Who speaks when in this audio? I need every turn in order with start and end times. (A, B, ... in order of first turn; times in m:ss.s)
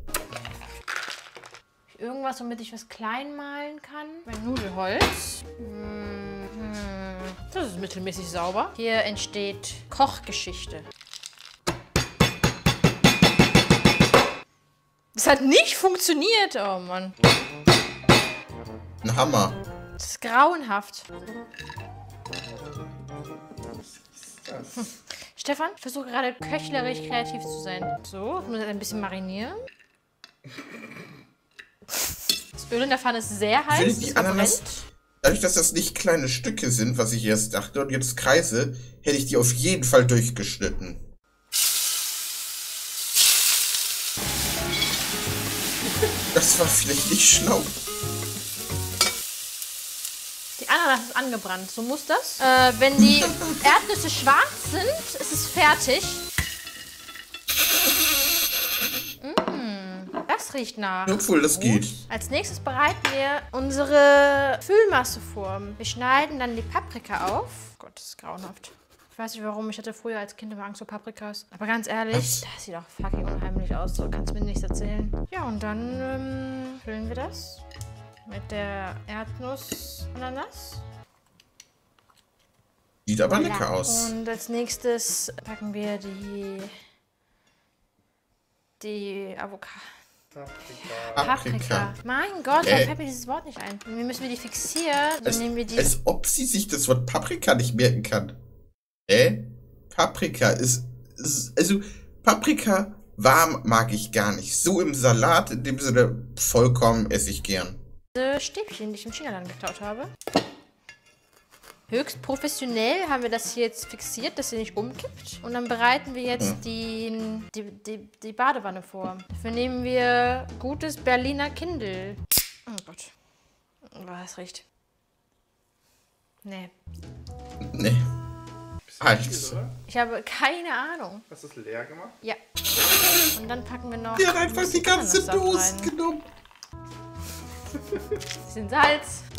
0:01.9-0:10.9 A
0:15.1-0:17.2 A
0:19.0-0:19.6 B
0:20.0-0:21.1 A
0:24.2-0:24.9 C
0:24.8-0:29.6 A
0:32.0-0:34.8 A
0:33.7-0:34.7 B
0:35.2-0:41.0 B
0:46.3-0:47.7 B
0:50.6-0:56.2 A
0:59.2-1:17.6 A
1:01.0-1:02.0 B
1:12.1-1:12.4 B
1:18.3-1:20.8 A
1:23.0-1:24.1 B
1:23.3-1:26.7 A
1:28.8-1:29.9 A
1:30.3-1:31.3 C
1:30.8-1:35.9 A
1:31.2-1:31.9 B
1:32.6-1:32.9 B
1:35.2-1:38.4 B
1:39.1-1:47.8 B
1:48.1-1:50.1 A
1:51.9-2:03.1 A
2:03.9-2:04.6 A
2:06.4-2:06.7 A
2:07.7-2:08.0 B
2:08.8-2:09.7 C
2:09.0-2:09.6 B
2:09.9-2:11.2 A
2:11.3-2:12.2 C
2:13.3-2:15.9 A
2:14.2-2:16.2 B
2:18.4-2:19.2 A